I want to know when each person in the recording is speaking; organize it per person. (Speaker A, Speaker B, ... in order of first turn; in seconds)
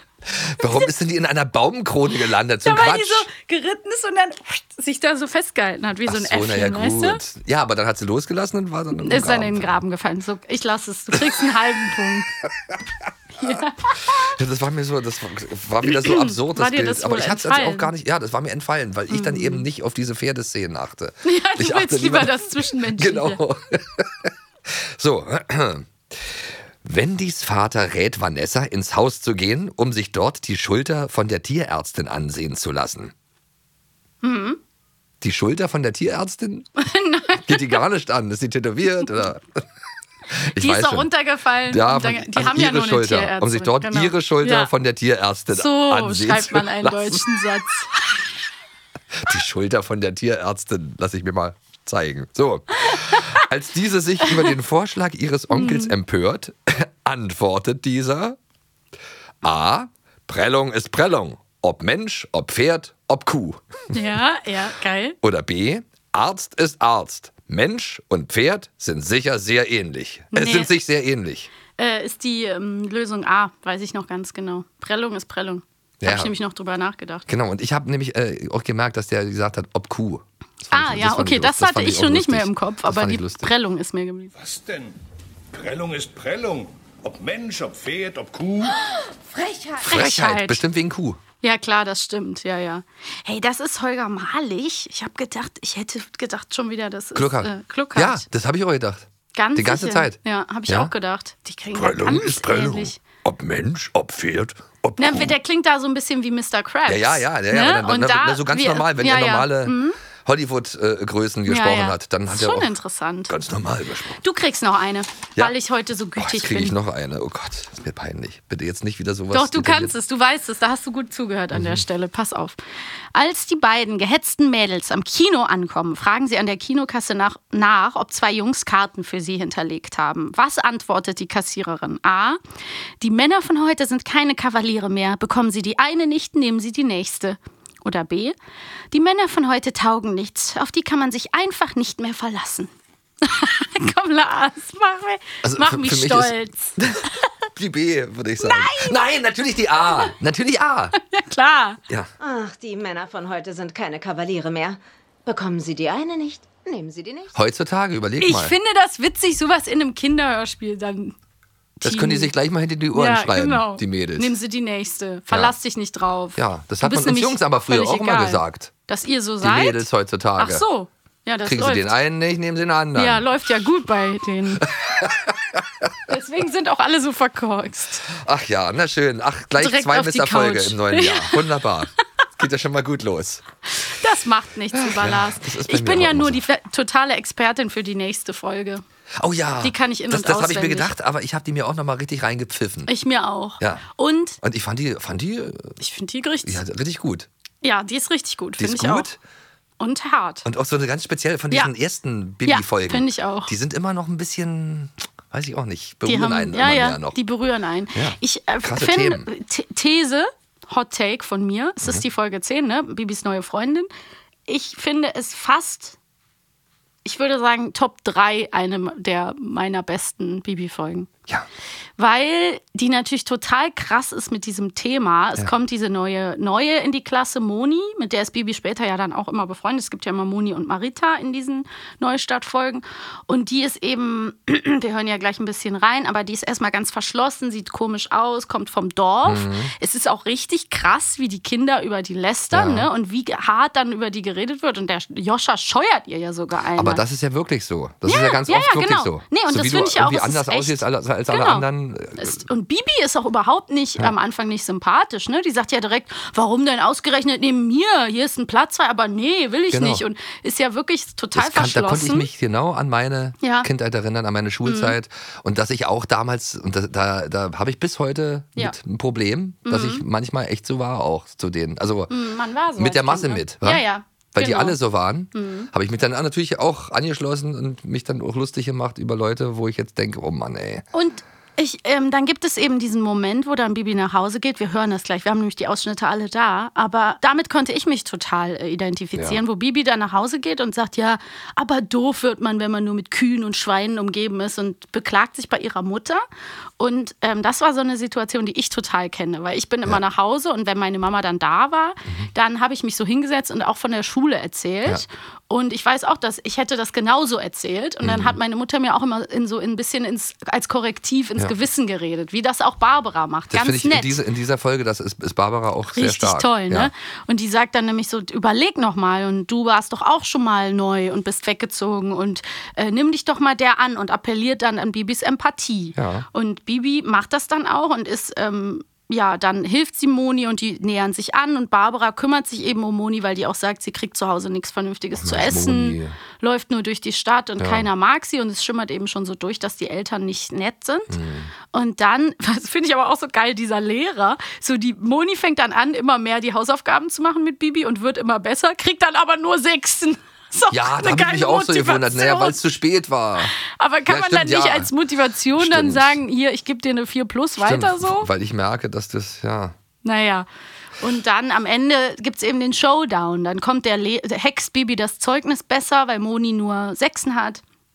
Speaker A: 0.3-3.3, 6.1-9.8, 14.0-33.1, 35.2-36.7, 37.5-39.4, 40.3-41.1, 41.7-47.2, 49.2-58.4, 59.4-63.8, 65.2-71.5, 76.0-76.3, 77.3-83.5, 89.8-91.2, 97.2-100.9, 101.7-105.4, 106.9-112.7, 113.3-114.2, 116.2-120.0, 121.5-121.8, 145.4-147.0, 147.6-151.0, 157.3-158.6, 161.8-164.3, 166.4-168.7, 169.4-170.6, 171.4-173.3, 174.6-175.9, 178.1-183.4, 184.7-186.4, 189.2-192.9, 194.4-195.8, 196.4-197.3, 198.6-199.2, 200.4-207.2, 207.9-209.3, 239.2-239.7, 242.5-242.9, 246.8-252.4, 259.7-260.0, 261.4-272.1, 272.8-280.8, 308.0-308.4, 313.5-316.9, 326.0-326.3, 335.2-336.2, 337.6-337.9, 341.1-341.5, 350.7-353.5, 354.1-354.9, 355.5-356.2, 357.6-359.8
Speaker B: 2.6-7.2, 9.0-12.3, 13.4-14.3, 15.8-17.9, 19.1-19.7, 21.2-23.4, 34.2-34.6, 36.8-37.8, 40.6-44.7, 45.5-47.9, 52.9-53.4, 54.3-54.5, 55.5-55.9, 63.9-65.2, 70.3-70.7, 71.8-77.3, 80.7-84.3, 89.8-90.6, 91.4-98.3, 99.3-103.0, 105.0-110.0, 111.5-113.3, 114.2-116.8, 119.3-122.6, 123.2-132.4, 133.0-138.3, 138.9-142.7, 143.2-147.2, 148.4-149.0, 151.0-151.8, 158.2-161.2, 161.8-162.3, 162.9-171.9, 172.9-174.7, 176.1-178.1, 179.6-181.5, 183.7-188.8, 189.6-190.9, 192.9-194.4, 195.8-196.6, 197.6-199.1, 199.8-200.4, 202.4-203.5, 206.1-213.9, 214.5-216.0, 217.1-221.1, 222.0-247.0, 248.1-251.7, 252.2-262.3, 263.4-263.7, 264.6-264.9, 269.7-270.0, 272.1-274.8, 275.3-275.7, 280.9-296.2, 296.8-314.2, 315.9-341.2, 341.7-352.6, 353.6-358.3, 360.0-360.5, 361.0-367.6
Speaker C: 84.4-85.0, 85.5-88.8
Speaker D: 89.3-89.8, 152.2-157.3